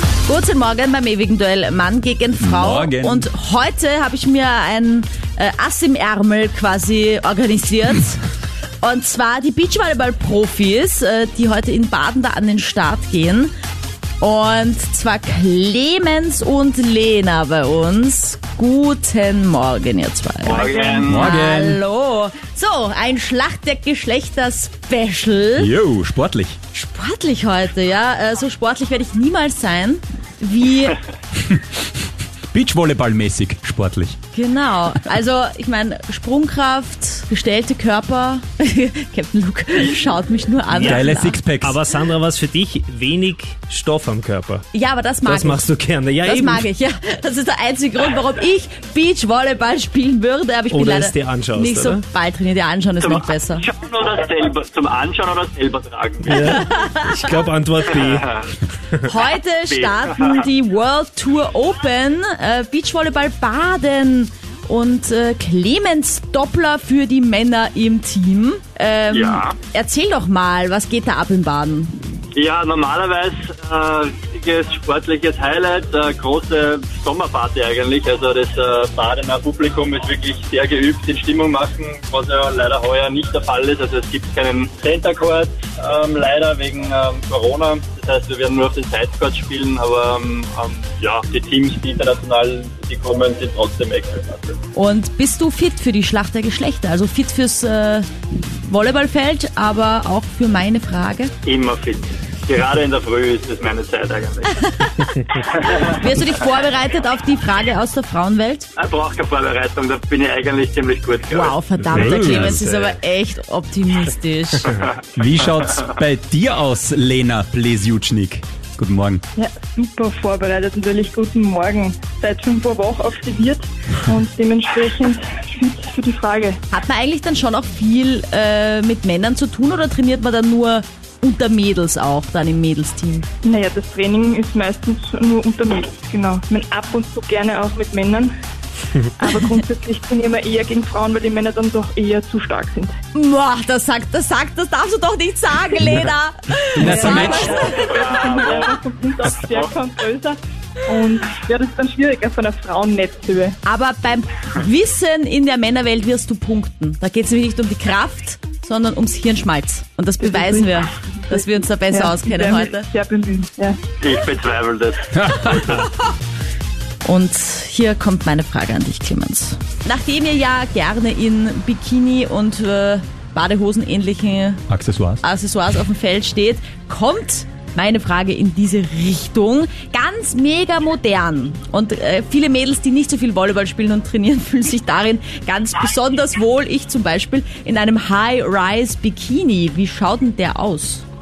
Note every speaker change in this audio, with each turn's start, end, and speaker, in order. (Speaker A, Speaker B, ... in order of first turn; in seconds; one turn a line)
Speaker A: 0.3-8.2
Speaker B: 2.4-3.3
Speaker A: 8.8-13.5
Speaker A: 14.2-25.7
Speaker C: 20.4-21.3
Speaker D: 20.5-21.1
Speaker B: 21.1-21.8
Speaker B: 25.6-26.6
Speaker A: 26.7-31.0
Speaker B: 32.5-34.2
Speaker A: 34.3-41.4
Speaker C: 39.8-40.1
Speaker E: 40.7-44.6
Speaker B: 40.8-41.8
Speaker A: 44.7-45.7
Speaker E: 45.2-46.7
Speaker A: 46.2-53.7
Speaker E: 50.7-52.0
Speaker C: 53.0-56.6
Speaker E: 56.2-58.4
Speaker A: 56.4-57.1
Speaker C: 57.9-58.5
Speaker A: 59.0-72.1
Speaker C: 59.7-60.5
Speaker C: 69.1-69.6
Speaker C: 72.3-94.6
Speaker A: 94.7-101.3
Speaker C: 101.4-104.7
Speaker A: 104.6-105.1
Speaker C: 105.3-106.0
Speaker A: 105.7-108.7
Speaker C: 108.8-111.6
Speaker A: 111.3-114.8
Speaker B: 111.9-112.6
Speaker E: 112.0-112.9
Speaker B: 115.2-119.2
Speaker D: 119.4-126.6
Speaker A: 126.7-133.3
Speaker D: 133.4-138.3
Speaker D: 139.2-142.9
Speaker A: 143.1-147.9
Speaker B: 146.8-147.5
Speaker D: 146.8-153.6
Speaker C: 147.2-149.7
Speaker A: 153.7-162.9
Speaker D: 160.2-160.7
Speaker D: 161.3-163.8
Speaker C: 164.0-165.9
Speaker B: 165.2-165.6
Speaker A: 167.0-174.6
Speaker B: 174.7-175.2
Speaker A: 175.2-191.0